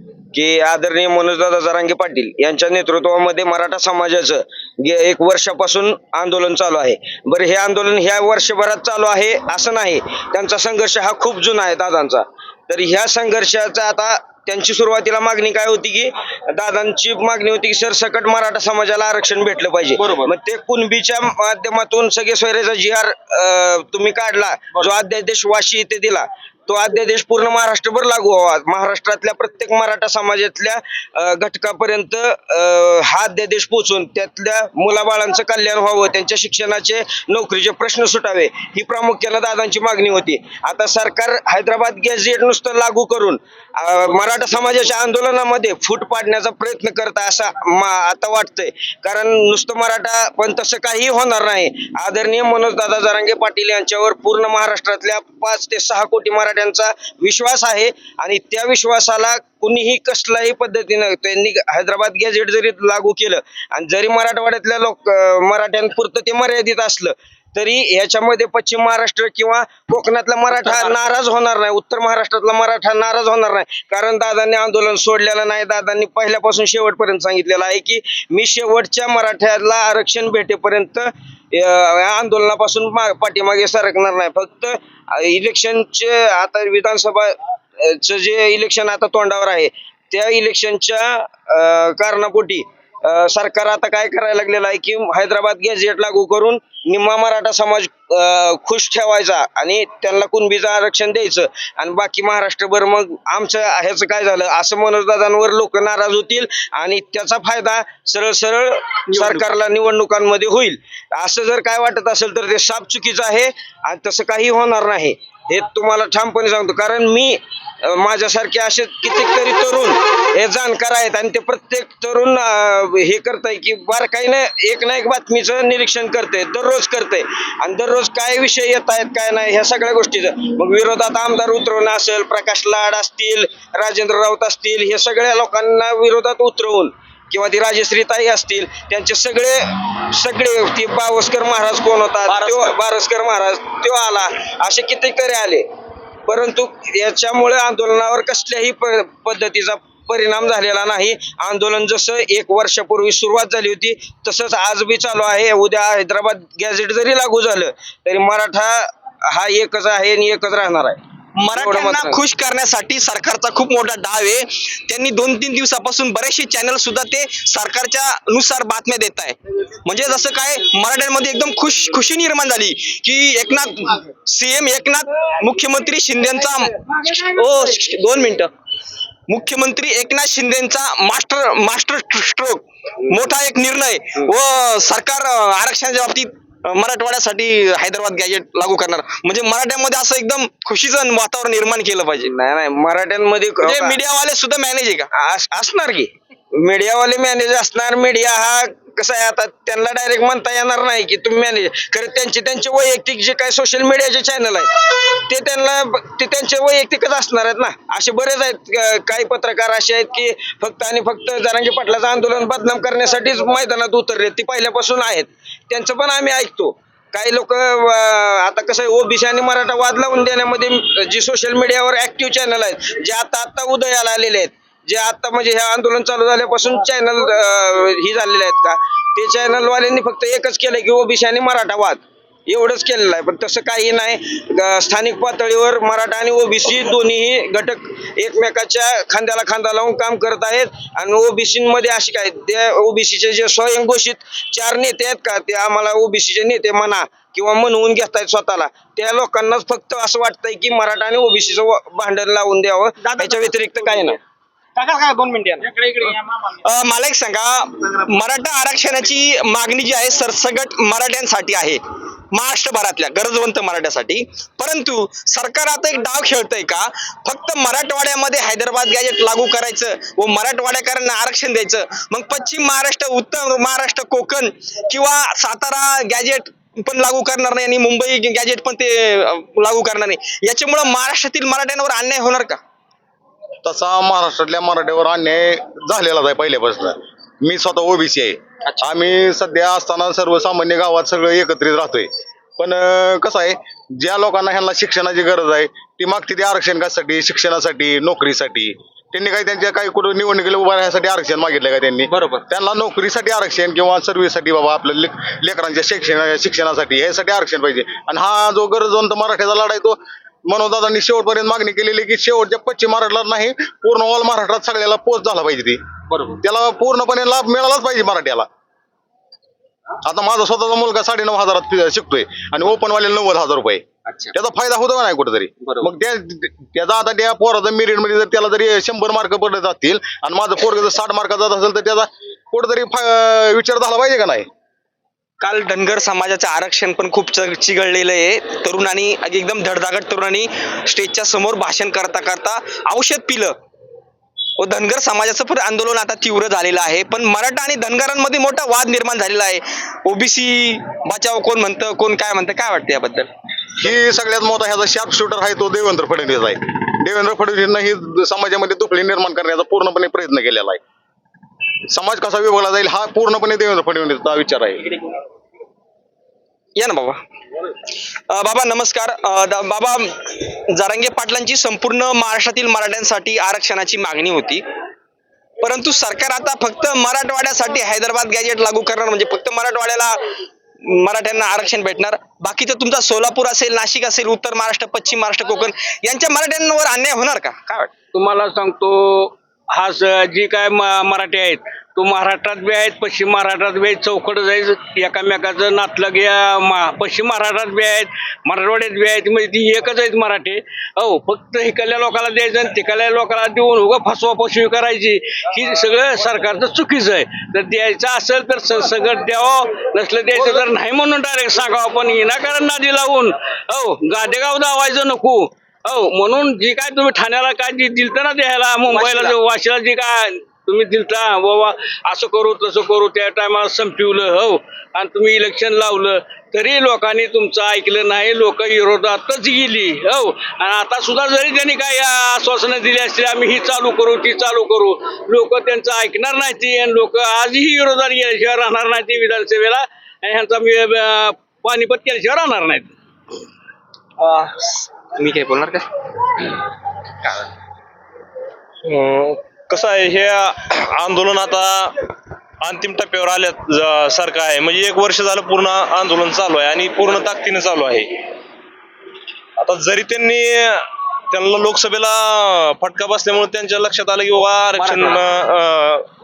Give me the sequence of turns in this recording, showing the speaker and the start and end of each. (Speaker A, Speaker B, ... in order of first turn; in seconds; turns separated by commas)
Speaker A: 0.3-145.7, Speaker B: 20.0-20.3, Speaker B: 142.3-142.7, Speaker A: 146.3-161.0, Speaker B: 161.4-178.5, Speaker A: 161.5-162.2, Speaker B: 179.3-192.3, Speaker A: 192.2-194.0, Speaker B: 193.6-195.1, Speaker A: 195.1-254.2, Speaker B: 254.8-261.8, Speaker B: 262.3-282.6, Speaker C: 283.6-315.8, Speaker B: 302.1-302.4, Speaker B: 316.1-316.4, Speaker C: 316.4-318.5, Speaker C: 320.0-334.5, Speaker B: 324.1-324.3, Speaker B: 325.6-325.9, Speaker B: 335.4-343.5, Speaker B: 344.6-353.3, Speaker C: 353.8-360.8, Speaker C: 361.9-364.9, Speaker B: 366.8-367.2, Speaker B: 368.3-374.6, Speaker B: 375.6-380.2, Speaker B: 380.8-387.9, Speaker D: 388.1-442.9, Speaker B: 419.0-419.3, Speaker B: 444.2-445.9, Speaker E: 448.8-451.9, Speaker E: 452.6-458.2, Speaker E: 459.6-466.1, Speaker B: 464.8-465.2